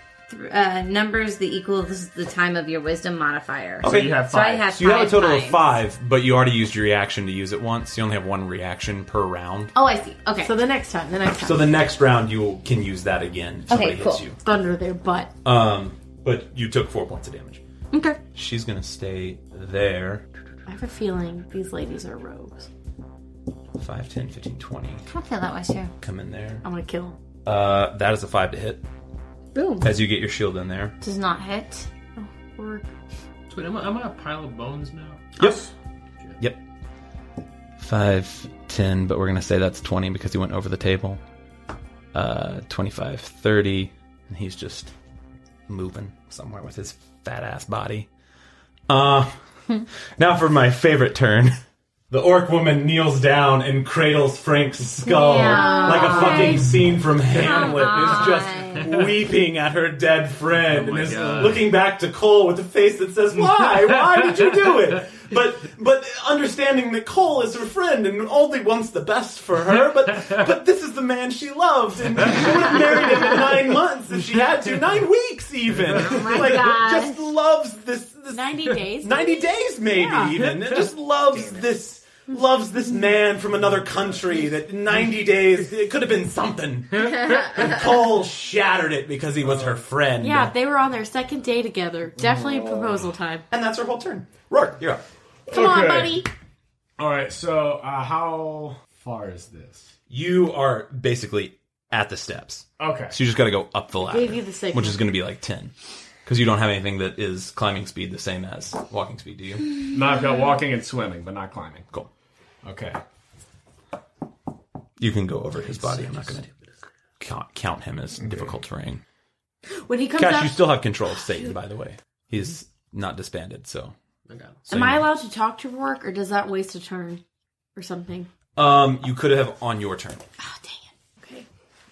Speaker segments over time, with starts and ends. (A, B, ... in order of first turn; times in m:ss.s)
0:00.3-0:05.7 A
0:03.8-0:09.7 B
0:03.8-0:04.6 C
0:09.7-0:10.5 A
0:10.4-0:11.7 D
0:11.4-0:14.4 B
0:13.7-0:14.2 A
0:14.4-0:15.3 D
0:15.4-0:17.6 B
0:17.9-0:18.2 A
0:18.3-0:20.2 B
0:20.7-0:22.7 D
0:23.8-0:25.0 B
0:25.1-0:25.9 A
0:26.0-0:26.6 B
0:26.6-0:27.2 D
0:27.4-0:28.8 B
0:29.5-0:29.9 A
0:29.8-0:30.9 B
0:31.0-0:31.9 A
0:32.2-0:32.9 D
0:33.5-0:35.3 E
0:35.4-0:35.6 B
0:35.4-0:35.7 D
0:37.8-0:41.2 B
0:42.1-0:44.9 B
0:45.7-0:48.1 B
0:48.9-0:49.4 B
0:50.2-0:51.6 B
0:52.1-1:30.5 B
0:55.0-0:56.8 A
0:55.2-0:56.6 D
0:57.3-0:58.9 A
1:00.6-1:01.7 E
1:15.9-1:17.2 A
1:18.3-1:19.7 D
1:30.2-1:33.4 D
1:32.2-1:32.9 C
1:33.5-1:35.0 B
1:35.5-1:36.2 C
1:35.5-1:36.3 D
1:37.0-1:39.9 C
1:40.1-1:45.7 B
1:42.8-1:43.1 C
1:44.0-1:45.0 D
1:46.2-1:49.7 B
1:49.9-1:51.9 C
1:52.6-1:53.0 C
1:55.0-1:56.5 B
1:55.8-1:56.5 E
1:57.2-1:59.0 B
1:59.7-2:00.6 D
2:00.2-2:03.9 B
2:04.3-2:04.6 E
2:04.7-2:05.1 B
2:04.7-2:07.2 D
2:07.7-2:08.3 D
2:08.6-2:10.2 B
2:10.4-2:11.4 D